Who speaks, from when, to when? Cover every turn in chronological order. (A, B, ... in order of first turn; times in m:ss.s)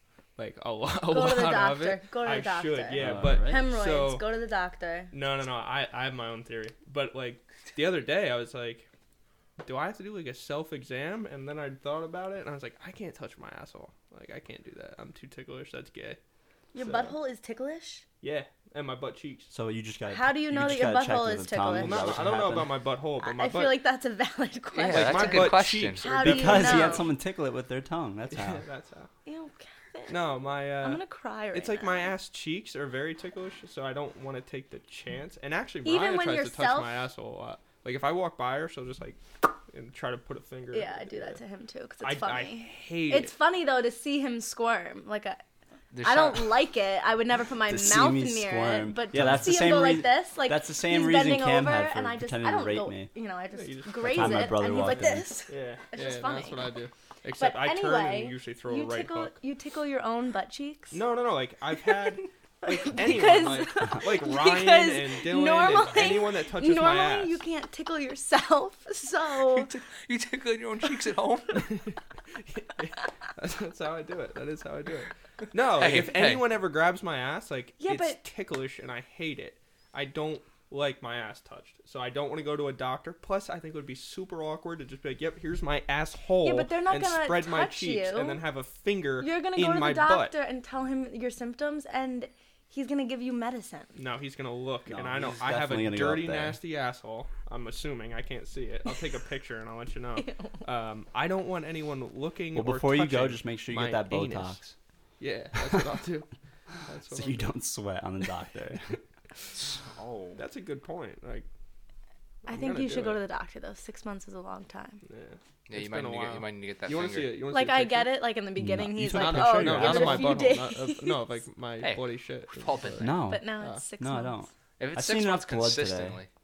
0:00.4-0:04.2 A
0:01.1-0:05.1 B
0:03.0-0:03.6 C
0:05.1-0:08.9 A
0:09.6-0:16.2 A
0:16.7-0:18.0 B
0:16.8-0:17.2 A
0:18.2-0:19.5 A
0:19.5-0:22.8 C
0:20.1-0:22.2 B
0:21.8-0:23.8 A
0:23.2-0:27.1 B
0:24.7-0:26.1 D
0:24.9-0:27.1 A
0:26.2-0:28.6 C
0:28.3-0:29.1 A
0:29.3-0:32.1 B
0:30.1-0:41.4 A
0:35.8-0:37.0 B
0:40.7-0:45.4 B
0:42.0-0:43.3 A
0:45.9-0:46.6 D
0:46.0-0:56.7 B
0:47.7-0:53.1 C
0:53.6-0:55.0 A
0:54.0-0:55.3 C
0:55.5-0:59.3 A
0:57.4-1:01.0 B
1:00.9-1:07.4 A
1:02.6-1:09.7 B
1:09.5-1:11.7 D
1:11.6-1:30.4 A
1:15.7-1:16.4 D
1:17.8-1:18.2 B
1:26.4-1:28.4 B
1:29.2-1:34.0 B
1:34.0-1:44.6 A
1:34.9-1:36.6 C
1:40.2-1:40.5 B
1:42.6-1:44.8 C
1:45.2-1:46.3 A
1:46.8-1:47.5 A
1:47.1-1:49.0 C
1:49.6-1:50.4 D
1:50.4-1:51.5 A
1:52.4-1:53.2 A
1:52.5-1:55.0 B
1:55.0-1:58.2 A
1:55.7-1:57.4 D
1:57.5-2:01.2 B
1:58.6-2:00.6 C
1:59.0-2:03.8 A
2:01.8-2:03.1 D
2:03.0-2:06.2 C
2:03.3-2:04.5 B
2:04.8-2:06.3 D